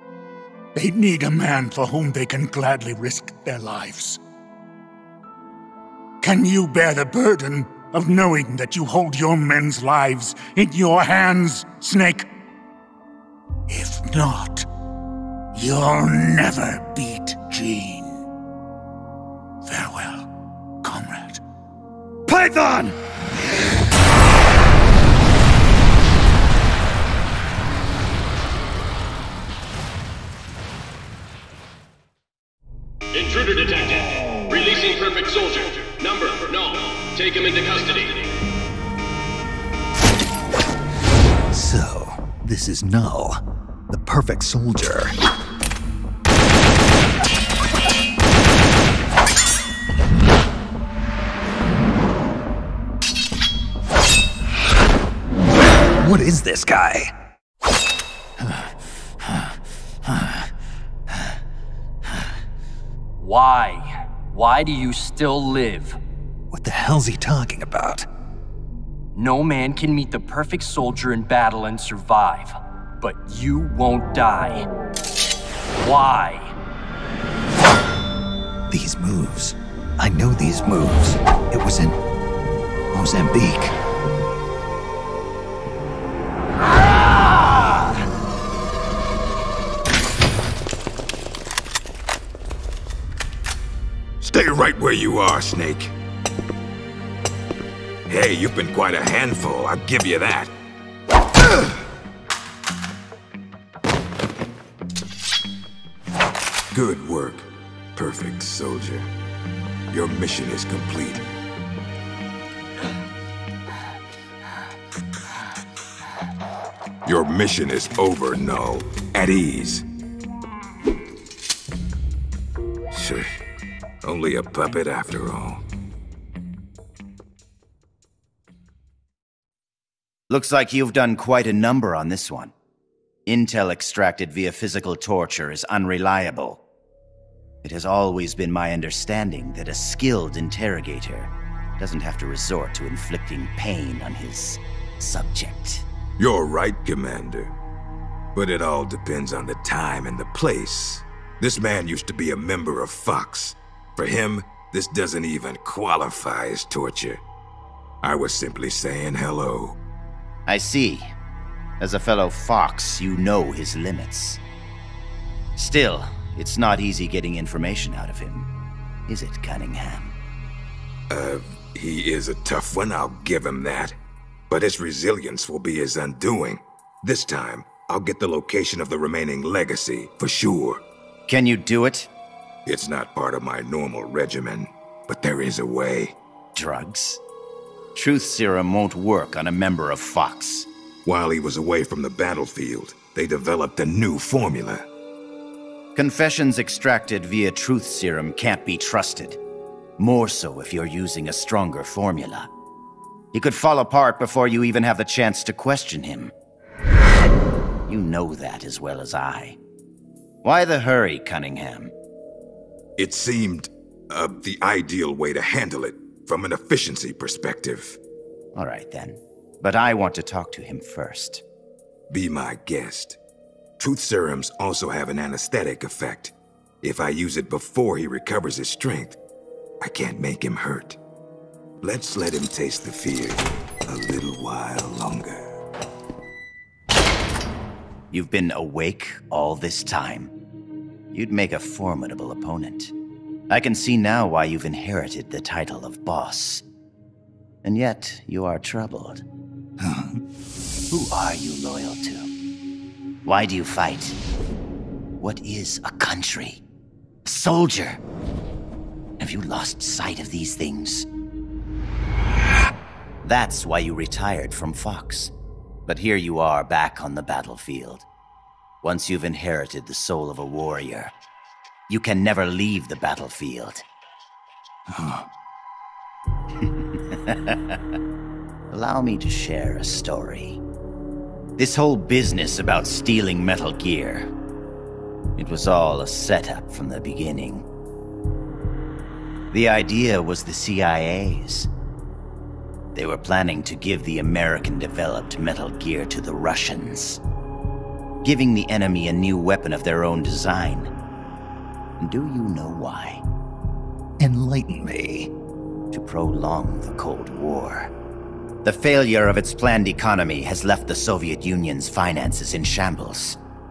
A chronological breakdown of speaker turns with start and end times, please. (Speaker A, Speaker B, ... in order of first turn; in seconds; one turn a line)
Speaker A: 0.7-4.2
Speaker A: 6.2-12.3
Speaker A: 13.7-14.7
Speaker A: 15.5-18.2
Speaker A: 19.6-20.3
Speaker A: 20.8-21.4
Speaker B: 22.3-22.9
Speaker C: 33.1-38.3
Speaker B: 41.5-45.1
Speaker B: 56.0-57.1
Speaker B: 58.4-58.7
Speaker B: 60.1-60.4
Speaker D: 63.2-66.0
Speaker B: 66.5-68.1
Speaker D: 69.1-74.7
Speaker D: 75.8-76.5
Speaker B: 78.7-82.0
Speaker B: 82.9-83.7
Speaker E: 94.2-95.9
Speaker E: 98.1-100.5
Speaker E: 106.7-109.1
Speaker E: 109.9-111.2
Speaker E: 117.0-119.8
Speaker E: 122.9-123.3
Speaker E: 124.0-125.6
Speaker F: 130.3-132.5
Speaker F: 133.2-136.6
Speaker F: 137.6-145.8
Speaker E: 146.2-147.5
Speaker E: 148.3-157.2
Speaker E: 158.0-159.8
Speaker F: 160.5-161.1
Speaker F: 161.8-164.4
Speaker F: 165.6-168.5
Speaker F: 169.1-170.1
Speaker E: 171.1-174.0
Speaker E: 174.5-180.8
Speaker F: 181.3-182.1
Speaker E: 182.7-186.2
Speaker F: 186.5-187.2
Speaker F: 187.9-190.7
Speaker E: 191.1-194.8
Speaker F: 195.9-199.4
Speaker F: 200.0-202.5
Speaker F: 203.3-206.3
Speaker F: 207.9-209.6
Speaker F: 210.4-211.9
Speaker E: 213.0-218.0
Speaker F: 218.5-221.4
Speaker E: 222.1-223.2
Speaker E: 223.8-229.2
Speaker E: 229.8-231.0
Speaker E: 231.8-235.4
Speaker F: 238.1-240.3
Speaker F: 241.1-242.9
Speaker F: 243.5-246.6
Speaker F: 247.6-249.2
Speaker B: 249.8-250.2
Speaker F: 250.9-252.3
Speaker F: 253.2-254.2
Speaker F: 255.2-256.6
Speaker F: 257.2-258.0
Speaker F: 259.2-261.1
Speaker F: 263.2-265.3
Speaker F: 265.9-268.1
Speaker F: 268.8-271.1
Speaker F: 271.9-273.8
Speaker B: 274.9-275.2
Speaker F: 276.6-277.8
Speaker F: 278.7-280.6
Speaker F: 281.6-284.3
Speaker F: 285.4-287.6
Speaker F: 289.5-291.7
Speaker F: 292.9-297.2
Speaker F: 298.2-300.9
Speaker F: 302.0-303.2
Speaker B: 304.2-305.3
Speaker F: 305.9-307.9
Speaker F: 308.6-313.4